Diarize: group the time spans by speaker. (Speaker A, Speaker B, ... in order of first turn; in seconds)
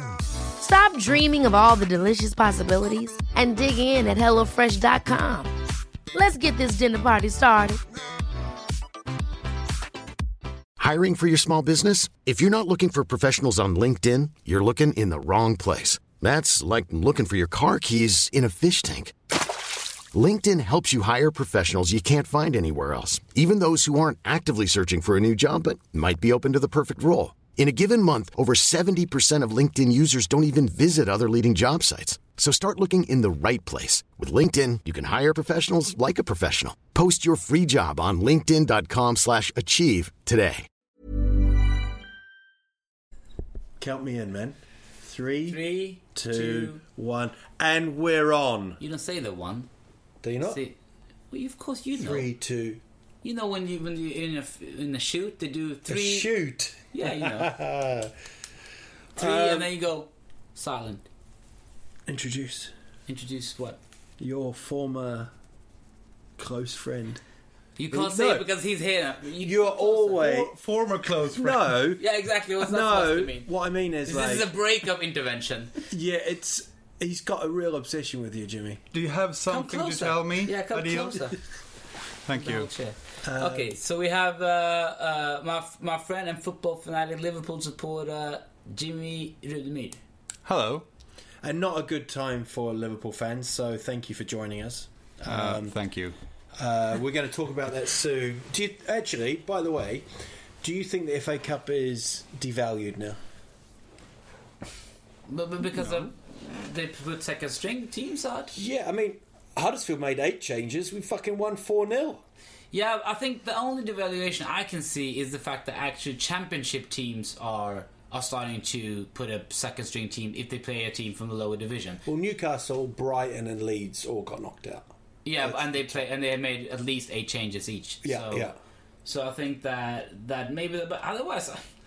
Speaker A: 0.6-5.5, 6.1-7.8
Speaker B: 10.8-19.1, 20.1-40.6
Speaker C: 43.8-48.8, 50.2-50.6, 51.9-52.8, 55.9-58.1, 59.1-59.7, 62.1-62.7, 64.2-65.3, 66.4-67.2, 67.9-68.5, 69.4-70.5, 71.3-72.0, 72.6-74.5, 75.9-78.8, 83.2-83.7, 91.4-95.7, 96.5-100.1, 100.6-103.2, 108.5-112.2, 122.0-124.9, 125.4-126.0, 128.0-128.5
Speaker D: 45.5-46.8, 48.8-49.7, 50.4-50.7, 51.3-52.3, 53.2-56.3, 56.9-57.5, 59.1-61.0, 63.1-63.8, 67.8-70.2, 72.0-73.5, 74.0-75.7, 79.5-81.4, 82.3-90.0, 105.3-108.6, 112.7-122.0, 125.2-128.5, 129.0-131.6
Speaker E: 70.2-71.8, 78.9-81.3, 82.2-82.7, 90.5-90.8, 95.2-96.1, 105.8-106.1